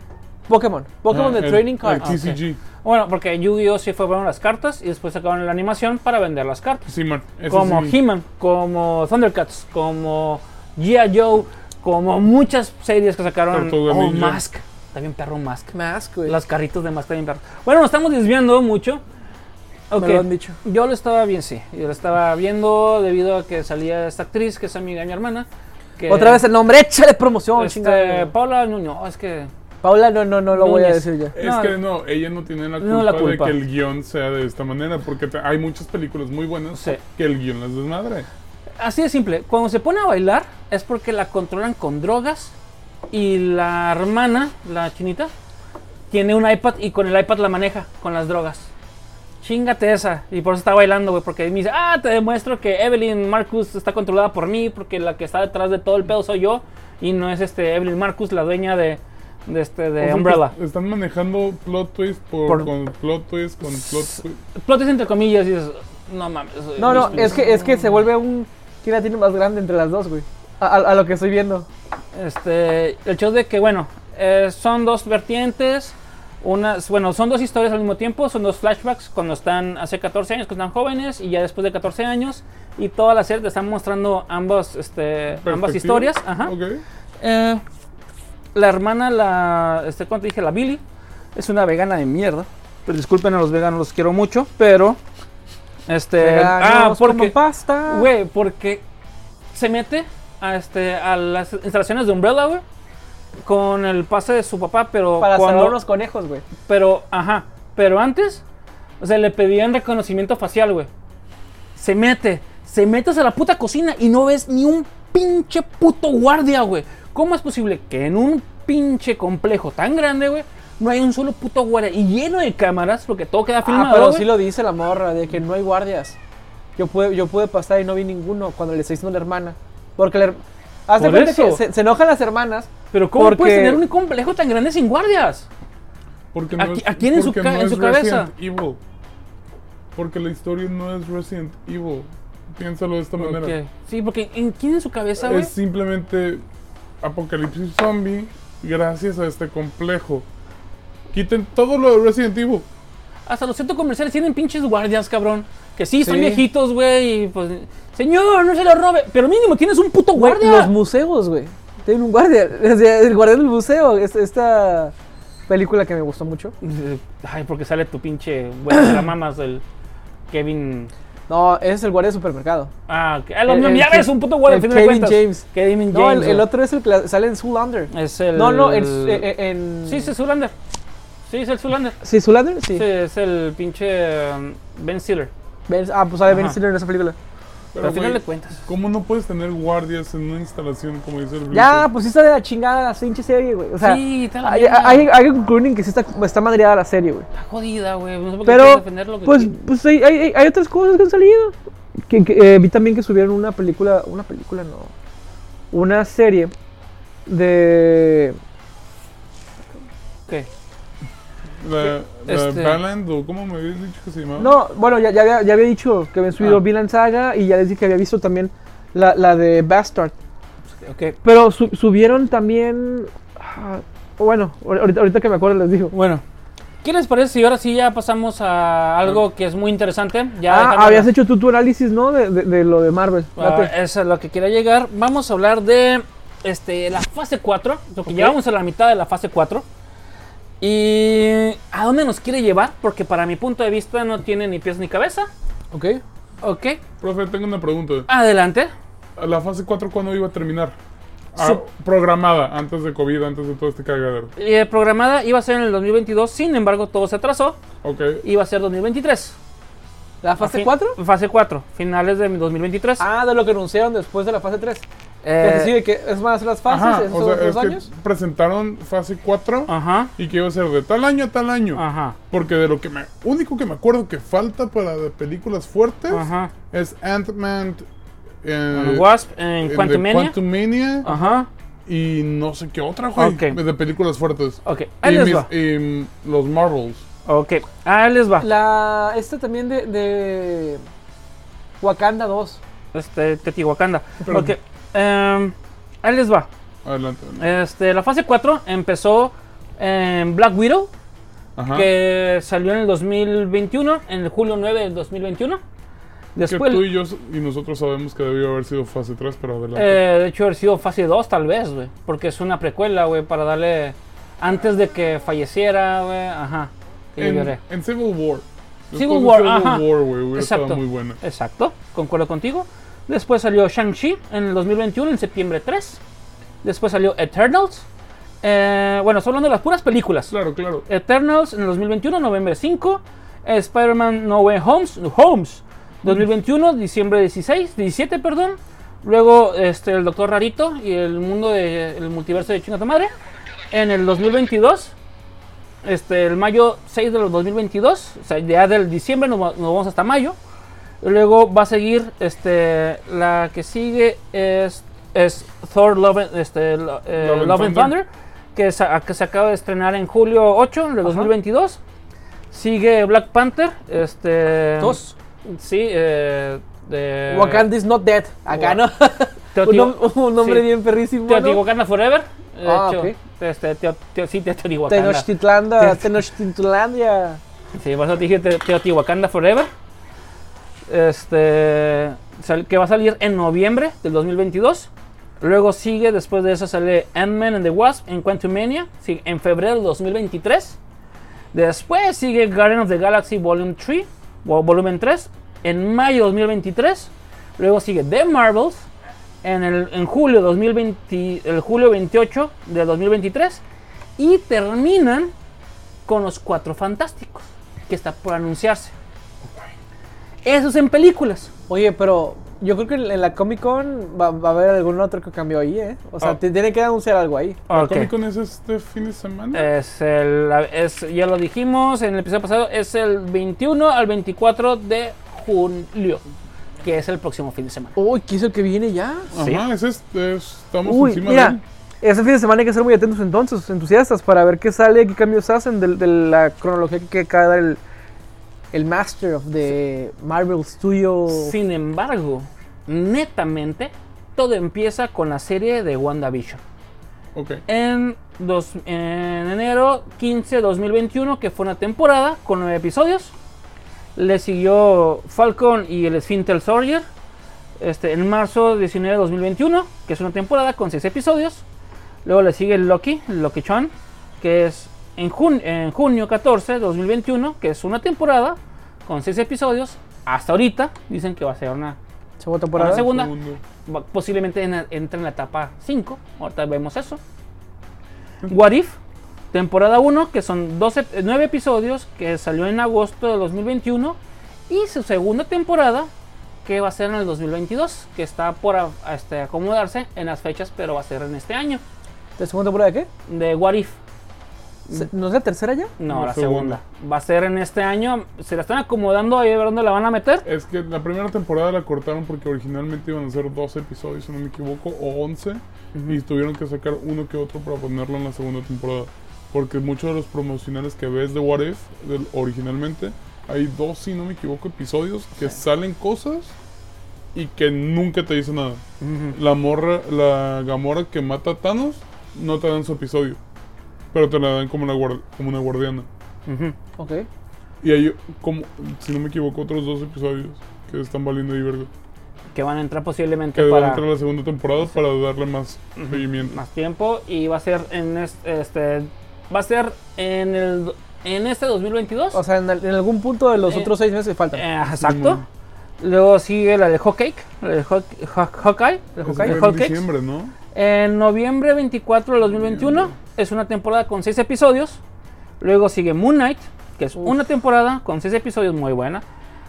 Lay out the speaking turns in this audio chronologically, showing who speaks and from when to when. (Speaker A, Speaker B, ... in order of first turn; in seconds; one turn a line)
Speaker A: 0.5-2.2
Speaker B: 1.1-2.6
Speaker C: 2.0-6.8
Speaker B: 6.9-8.0
Speaker C: 7.5-15.7
Speaker B: 13.5-14.4
Speaker A: 15.7-16.4
Speaker C: 16.3-19.0
Speaker C: 19.9-26.4
Speaker A: 20.0-20.6
Speaker A: 26.1-28.3
Speaker C: 27.6-29.5
Speaker A: 29.8-31.4
Speaker C: 30.5-31.8
Speaker B: 31.4-38.3
Speaker C: 32.8-33.6
Speaker C: 36.7-37.0
Speaker C: 38.8-42.5
Speaker C: 43.1-45.3
Speaker C: 46.1-48.7
Speaker C: 49.4-60.5
Speaker B: 60.0-64.4
Speaker C: 63.7-67.9
Speaker A: 66.8-71.7
Speaker C: 72.1-86.5
Speaker B: 85.4-86.8
Speaker C: 87.2-87.6
Speaker C: 88.5-90.8
Speaker C: 91.3-95.0
Speaker C: 95.9-97.3
Speaker A: 96.2-98.1
Speaker C: 97.9-98.8
Speaker C: 99.5-102.6
Speaker C: 103.4-105.8
Speaker A: 105.2-106.5
Speaker C: 106.7-108.4
Speaker C: 109.0-110.9
Speaker C: 111.8-124.3
Speaker A: 123.6-126.2
Speaker A: 126.8-133.8
Speaker C: 131.0-131.6
Speaker C: 132.9-135.5
Speaker B: 136.3-138.8
Speaker C: 136.6-138.3
Speaker B: 139.9-143.6
Speaker C: 143.2-145.5
Speaker B: 145.2-146.4
Speaker B: 147.0-150.3
Speaker B: 151.1-152.7
Speaker C: 153.3-160.7
Speaker A: 156.0-156.4
Speaker A: 160.2-164.9
Speaker A: 165.5-166.6
Speaker C: 166.6-169.6
Speaker C: 170.3-170.9
Speaker A: 171.3-172.7
Speaker C: 172.9-176.5
Speaker A: 173.5-180.1
Speaker C: 177.9-179.3
Speaker C: 179.9-180.5
Speaker C: 181.3-182.0
Speaker A: 182.0-182.8
Speaker C: 182.7-185.3
Speaker A: 185.7-187.2
Speaker C: 186.3-186.6
Speaker B: 187.7-191.9
Speaker C: 187.8-188.6
Speaker A: 191.5-197.3
Speaker C: 193.8-195.1
Speaker C: 197.3-199.5
Speaker A: 198.5-201.5
Speaker A: 202.1-204.9
Speaker A: 205.7-206.5
Speaker A: 207.3-208.4
Speaker B: 211.6-214.6
Speaker C: 212.3-212.8
Speaker A: 214.4-220.2
Speaker C: 220.8-221.2
Speaker A: 221.2-225.9
Speaker C: 225.9-226.2
Speaker C: 226.8-231.1
Speaker A: 230.5-233.7
Speaker C: 233.4-239.7
Speaker A: 238.1-238.4
Speaker C: 240.6-245.3
Speaker A: 245.7-246.0
Speaker C: 246.4-246.8
Speaker B: 247.0-248.1
Speaker C: 248.1-248.7
Speaker B: 249.2-250.8
Speaker B: 251.3-254.3
Speaker C: 254.4-257.6
Speaker B: 257.8-258.2
Speaker C: 258.2-259.4
Speaker A: 260.2-261.0
Speaker C: 260.4-263.0
Speaker A: 263.0-264.9
Speaker C: 265.2-265.8
Speaker A: 265.4-267.9
Speaker B: 266.7-277.9
Speaker C: 269.7-270.1
Speaker C: 271.7-272.2
Speaker C: 276.1-276.5
Speaker B: 278.4-279.1
Speaker C: 278.7-280.4
Speaker B: 279.6-281.1
Speaker C: 281.0-281.5
Speaker B: 281.9-287.0
Speaker C: 283.2-283.6
Speaker C: 284.6-285.5
Speaker C: 287.3-288.5
Speaker A: 288.4-290.8
Speaker A: 291.8-292.6
Speaker C: 292.9-296.5
Speaker B: 294.2-294.5
Speaker B: 296.8-297.4
Speaker C: 297.4-300.9
Speaker B: 301.6-301.9
Speaker C: 301.7-305.6
Speaker C: 306.4-306.9
Speaker B: 306.5-310.0
Speaker C: 309.8-317.6
Speaker B: 317.2-321.2
Speaker C: 318.9-326.0
Speaker C: 326.6-327.9
Speaker C: 328.4-330.3
Speaker B: 330.3-330.9
Speaker C: 330.9-343.1
Speaker C: 343.7-344.9
Speaker C: 345.8-350.4
Speaker C: 351.0-361.8
Speaker B: 357.2-358.0
Speaker A: 361.0-361.3
Speaker C: 362.5-367.7
Speaker A: 364.8-365.1
Speaker A: 367.3-371.6
Speaker C: 368.5-368.8
Speaker C: 369.5-370.7
Speaker C: 371.3-376.1
Speaker A: 372.6-373.1
Speaker A: 374.9-377.4
Speaker C: 377.8-379.7
Speaker C: 380.9-384.9
Speaker C: 385.4-390.8
Speaker C: 391.5-398.9
Speaker C: 399.4-403.6
Speaker C: 404.2-405.3
Speaker C: 406.1-408.9
Speaker C: 410.4-411.5
Speaker A: 411.7-417.6
Speaker C: 417.7-418.1
Speaker B: 417.7-419.7
Speaker C: 419.5-426.2
Speaker C: 426.8-427.9
Speaker A: 428.0-429.3
Speaker B: 429.3-431.6
Speaker C: 429.4-429.6
Speaker A: 430.9-437.8
Speaker A: 438.7-441.6
Speaker C: 441.3-446.6
Speaker B: 447.4-447.6
Speaker C: 447.7-453.3
Speaker C: 454.2-457.1
Speaker C: 457.8-461.6
Speaker C: 462.2-472.0
Speaker A: 472.4-473.1
Speaker C: 472.8-473.3
Speaker B: 472.8-473.6
Speaker C: 473.9-477.2
Speaker C: 478.5-479.0
Speaker C: 479.5-484.2
Speaker C: 484.7-486.1
Speaker C: 486.6-491.8
Speaker A: 492.4-493.1
Speaker C: 493.3-494.0
Speaker A: 494.9-495.9
Speaker C: 496.0-500.4
Speaker B: 496.1-496.8
Speaker B: 500.4-516.5
Speaker B: 517.3-523.4
Speaker C: 519.0-519.4
Speaker B: 524.1-526.1
Speaker C: 526.5-526.8
Speaker A: 527.0-527.3
Speaker B: 527.8-531.9
Speaker C: 532.5-534.0
Speaker B: 533.5-536.5
Speaker C: 536.0-542.4
Speaker A: 542.3-544.6
Speaker C: 544.5-545.4
Speaker B: 544.9-545.5
Speaker C: 546.0-550.0
Speaker A: 549.2-549.6
Speaker B: 549.2-550.5
Speaker C: 550.7-555.0
Speaker B: 552.5-553.1
Speaker C: 555.6-559.2